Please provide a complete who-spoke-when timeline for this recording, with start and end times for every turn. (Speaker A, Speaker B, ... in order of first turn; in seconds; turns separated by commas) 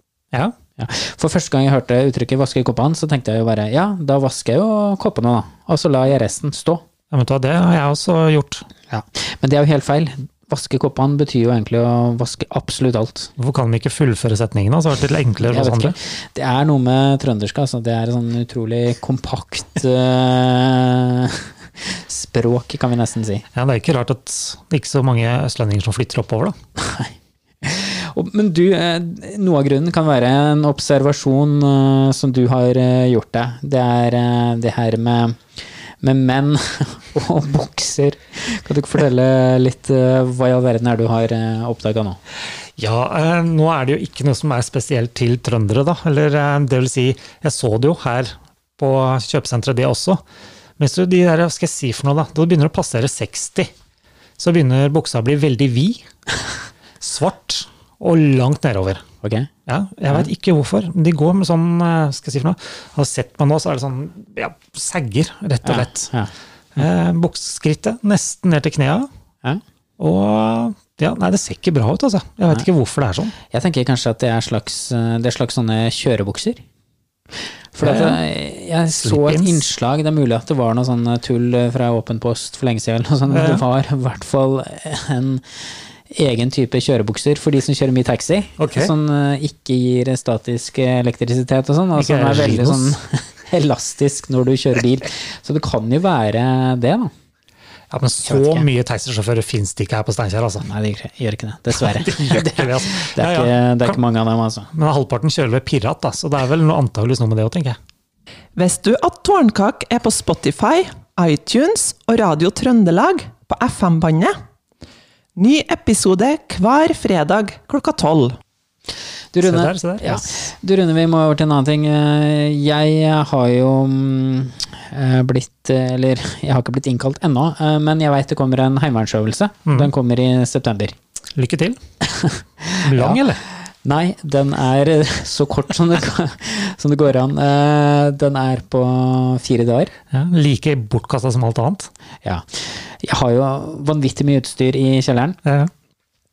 Speaker A: 0.8-6.8, Speaker B: 7.1-8.7, Speaker A: 8.9-13.3, Speaker B: 13.4-15.9, Speaker A: 15.4-23.4, Speaker B: 23.5-26.6, Speaker A: 26.8-35.4, Speaker A: 36.0-42.2, Speaker B: 42.8-50.2, Speaker B: 50.8-53.7, Speaker B: 54.4-56.0, Speaker B: 57.0-59.0, Speaker A: 59.2-59.5, Speaker B: 59.6-66.1, Speaker A: 65.6-66.3, Speaker B: 66.7-69.1, Speaker B: 70.0-73.3, Speaker A: 73.5-76.6, Speaker A: 77.7-85.4, Speaker B: 77.8-78.2, Speaker B: 79.0-79.7, Speaker B: 83.3-83.6, Speaker A: 86.1-97.1, Speaker B: 88.6-88.9, Speaker B: 92.0-92.9, Speaker B: 97.9-100.7, Speaker A: 98.2-98.7, Speaker A: 100.6-104.7, Speaker B: 101.7-104.0, Speaker B: 104.7-107.8, Speaker C: 108.5-114.4, Speaker C: 115.3-118.4, Speaker A: 119.3-130.9, Speaker B: 119.4-120.3, Speaker B: 131.3-131.8, Speaker A: 132.0-133.2, Speaker B: 132.8-133.4, Speaker A: 133.8-139.9, Speaker B: 140.1-141.9, Speaker A: 142.2-145.4, Speaker B: 145.4-145.7